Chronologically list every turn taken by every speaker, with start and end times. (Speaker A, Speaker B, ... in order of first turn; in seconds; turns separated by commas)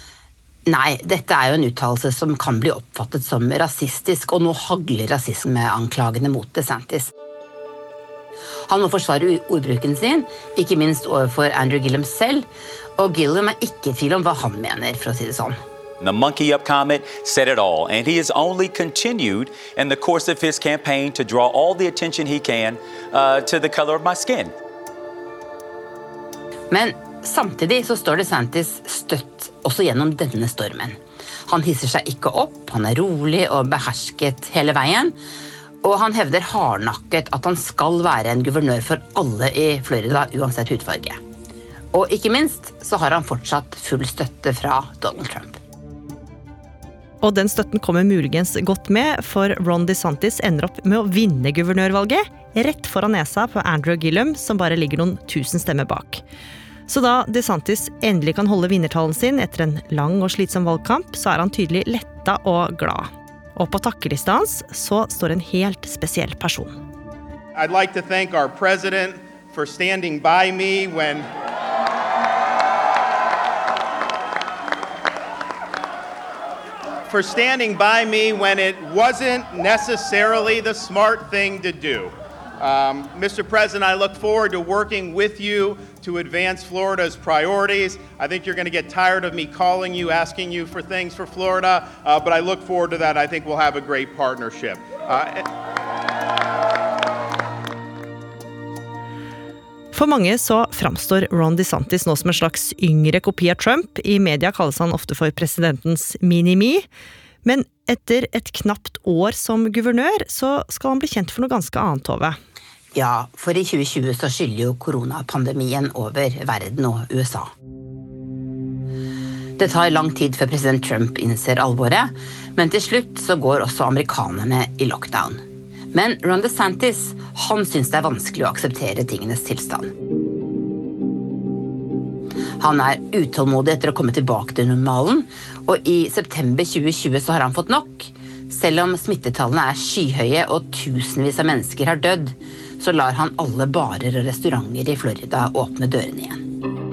Speaker A: 0.7-7.1, Speaker A: 8.7-12.5, Speaker A: 13.0-15.6, Speaker B: 16.0-24.5, Speaker A: 26.7-35.1, Speaker A: 35.8-41.2, Speaker A: 41.9-45.6, Speaker C: 47.2-56.2, Speaker C: 56.9-66.8, Speaker D: 67.5-71.3, Speaker D: 77.1-95.5, Speaker C: 99.9-106.9, Speaker C: 107.4-112.4, Speaker A: 112.9-117.5, Speaker A: 119.6-129.9, Speaker A: 132.6-146.4